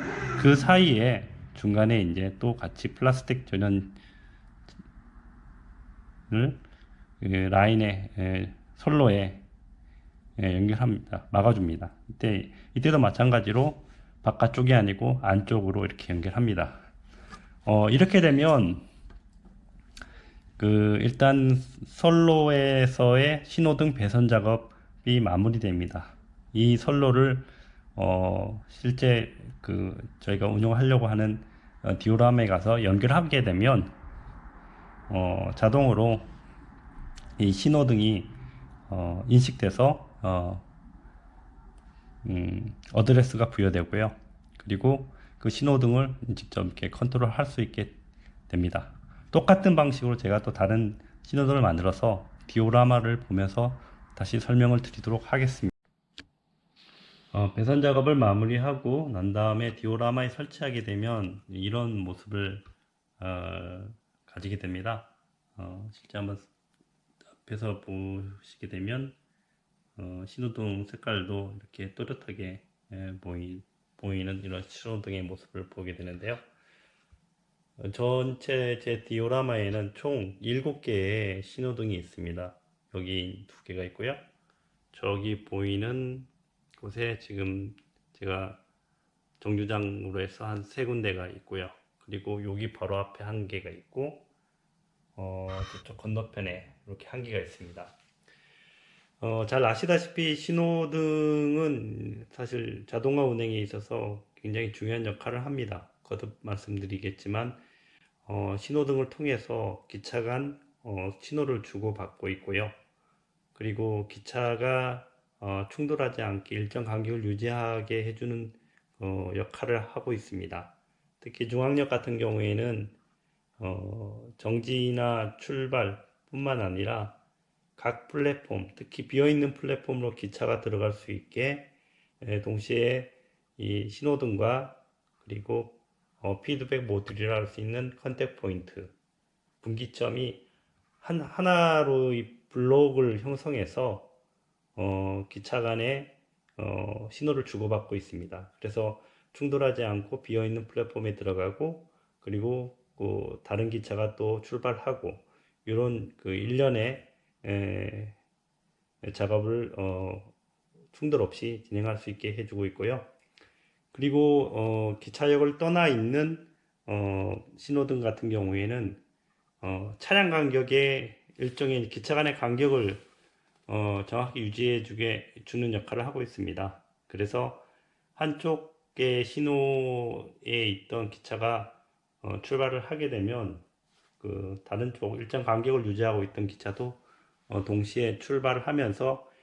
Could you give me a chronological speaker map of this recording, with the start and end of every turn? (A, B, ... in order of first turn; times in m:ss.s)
0:00.4-0:04.0 A
0:06.3-0:06.6 A
0:07.2-0:09.5 A
0:10.4-0:16.9 A
0:17.6-0:18.9 A
0:20.6-0:34.0 A
0:35.1-0:36.3 A
0:37.4-0:38.4 A
0:38.9-0:40.7 A
0:42.2-0:55.7 A
0:57.3-1:02.6 A
1:03.2-1:06.5 A
1:07.4-1:09.2 A
1:10.0-1:16.5 A
1:17.8-1:24.2 A
1:24.9-1:28.6 A
1:29.4-1:34.3 A
1:35.2-1:38.0 A
1:39.2-1:47.6 A
1:48.2-1:52.8 A
1:53.6-2:03.0 A
2:03.6-2:07.2 A
2:07.8-2:19.0 A
2:19.6-2:20.5 A
2:21.0-2:24.1 A
2:24.8-2:38.2 A
2:39.0-2:40.3 A
2:40.9-2:43.1 A
2:43.9-2:49.0 A
2:49.6-2:53.1 A
2:53.7-2:57.6 A
2:58.2-3:03.6 A
3:04.2-3:09.3 A